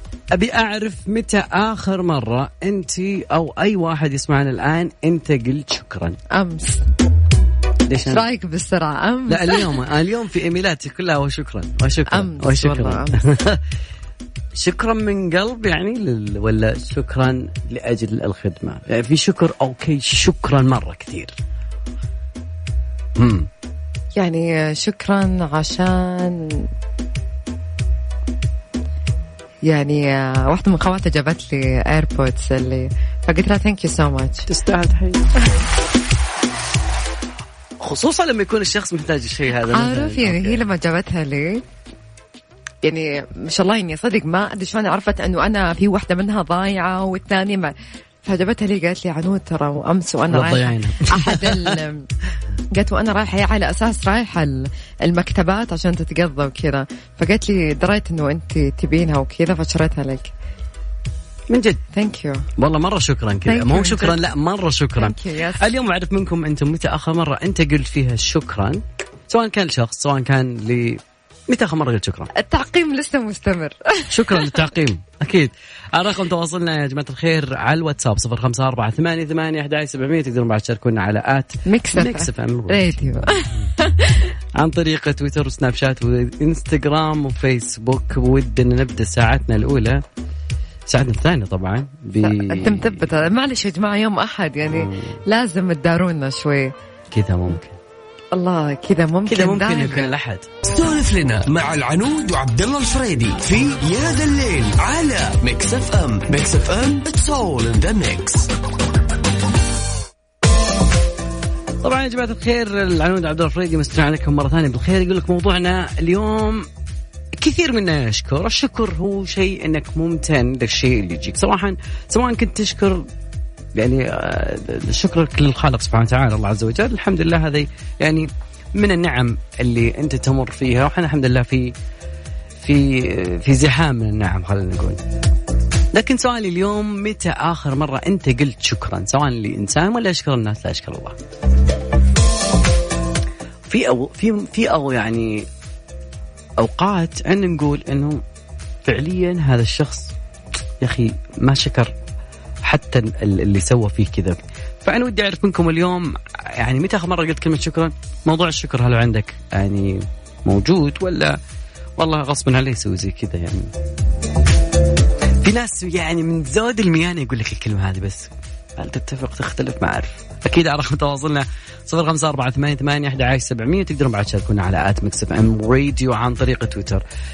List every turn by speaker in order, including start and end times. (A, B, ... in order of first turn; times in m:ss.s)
0:00.3-0:06.2 A
0:06.3-0:06.8 B
0:07.9-0:08.2 A
0:08.1-0:09.8 B
0:09.3-0:13.6 A
0:12.1-0:13.3 B
0:14.6-0:21.4 A
0:23.2-0:23.5 A
0:24.2-0:26.5 B
0:29.7-0:34.5 B
0:34.5-0:35.3 A
0:37.8-0:40.6 A
0:39.7-0:41.6 B
0:42.8-0:52.1 B
0:50.3-0:51.8 A
0:52.7-1:00.3 B
1:01.5-1:01.8 A
1:01.9-1:02.5 B
1:02.6-1:12.3 A
1:03.5-1:04.3 B
1:05.0-1:05.7 B
1:12.4-1:14.6 B
1:14.1-1:23.3 A
1:21.7-1:24.2 B
1:24.6-1:30.0 A
1:30.9-1:33.2 A
1:32.2-1:36.7 B
1:34.7-1:35.2 A
1:37.1-1:37.8 A
1:38.3-1:40.1 B
1:39.3-1:40.5 A
1:40.7-1:48.5 C
1:51.8-1:56.7 A
1:57.4-2:03.0 A
2:03.8-2:11.7 A
2:12.6-2:15.0 A
2:15.9-2:21.2 A
2:23.7-2:25.5 A
2:26.6-2:28.2 A
2:28.8-2:30.1 A
2:30.8-2:31.9 A
2:32.6-2:41.4 A
2:42.0-2:43.7 A
2:45.4-2:57.0 A